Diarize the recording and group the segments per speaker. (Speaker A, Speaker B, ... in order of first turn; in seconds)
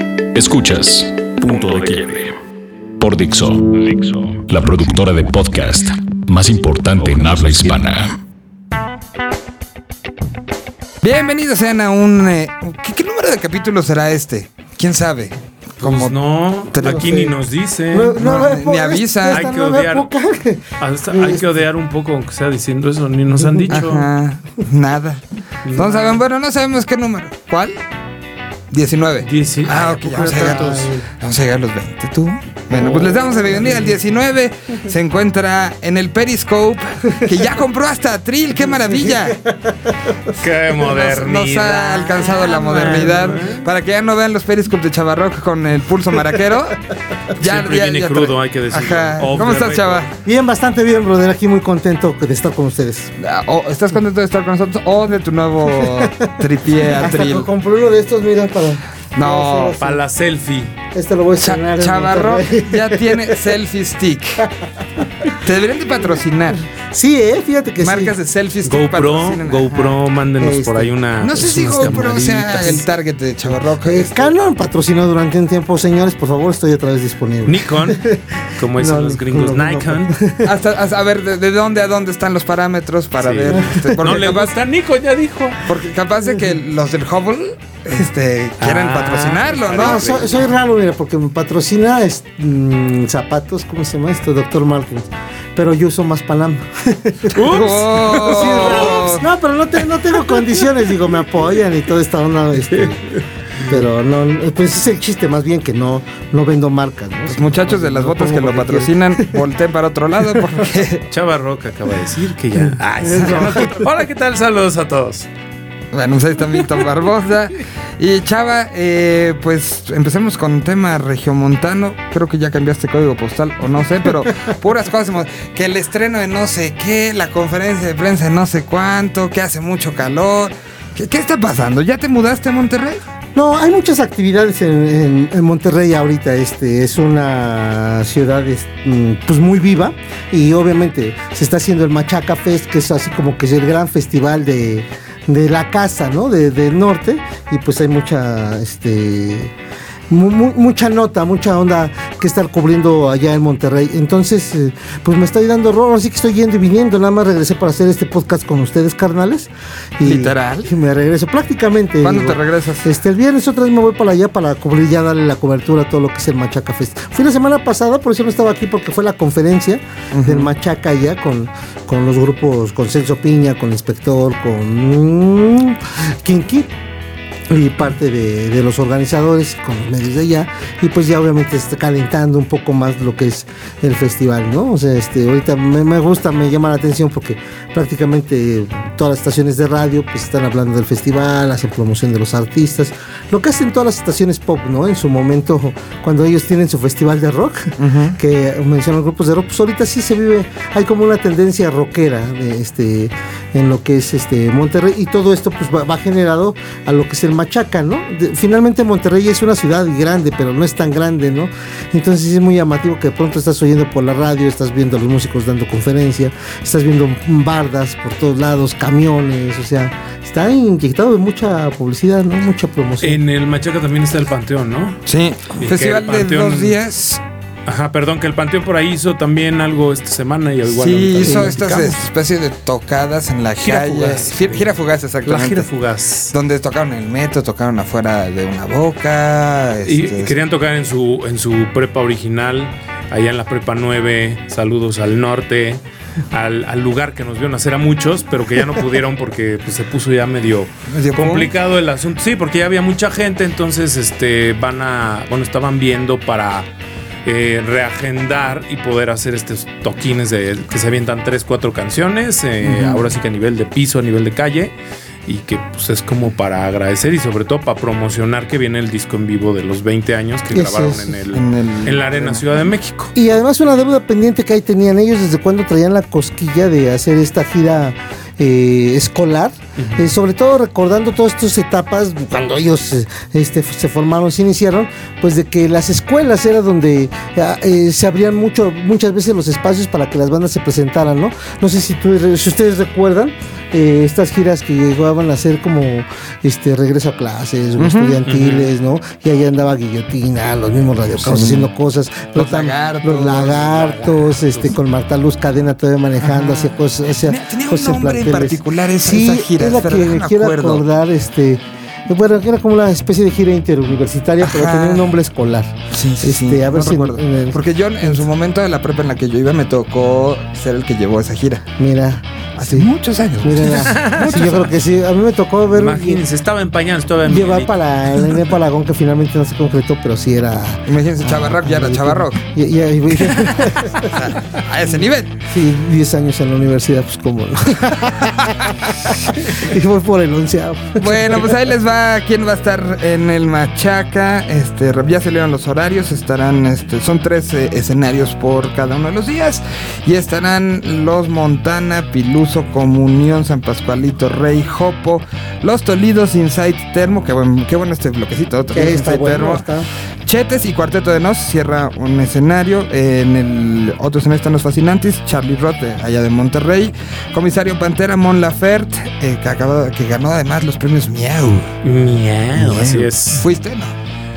Speaker A: 0.3-2.4, 3.0-8.2
Speaker B: 11.0-16.1, 16.7-17.1, 18.2-19.5, 23.7-27.8, 28.7-39.4, 40.8-46.8, 47.3-50.1, 53.2-57.5, 59.1-59.8, 61.4-64.5, 65.4-66.7, 67.8-70.0, 71.2-74.3, 80.5-84.5, 85.6-90.3, 97.3-99.2, 107.3-111.0, 113.2-113.5, 115.9-133.0, 160.0-160.7, 162.0-162.9, 170.1-170.5, 197.8-198.2, 225.1-227.2, 230.7-235.7, 236.3-240.3, 250.9-251.5, 271.3-272.4, 297.8-298.2, 301.2-301.7, 302.4-304.6, 306.2-310.8, 314.4-315.1, 315.9-321.7, 322.6-324.7, 330.9-332.4, 333.9-335.4, 338.2-339.4, 341.0-359.6, 360.2-371.8, 372.6-373.9
Speaker C: 15.8-18.2, 19.3-20.1, 20.8-24.1, 25.6-26.2, 29.2-30.9, 32.8-33.9, 40.4-43.6, 47.4-50.1, 59.8-60.7, 68.7-72.8, 77.5-78.0, 78.6-80.2, 83.2-85.6, 88.6-90.5, 97.3-99.0, 100.3-100.9, 111.1-115.3, 223.0-225.0, 225.6-226.8, 227.7-232.0, 233.6-234.7, 235.2-236.3, 239.9-256.7, 257.2-264.8, 265.3-273.1, 279.8-280.1, 298.2-298.7, 323.6-324.7, 325.7-328.4, 371.8-373.4
Speaker D: 16.8-17.4, 17.9-21.5, 23.4-23.8, 30.1-31.1, 38.8-40.4, 42.7-43.4, 50.2-53.1, 55.7-60.0, 60.9-63.5, 66.7-68.1, 70.4-72.7, 73.8-80.5, 83.5-84.3, 89.8-109.4, 110.4-110.7, 112.7-113.8, 133.3-149.5, 150.1-176.7, 177.5-223.2, 231.3-231.6, 262.8-263.0, 270.5-271.2, 273.1-318.2, 321.8-322.9, 323.4-326.2, 327.2-334.4, 335.5-341.6, 358.8-359.9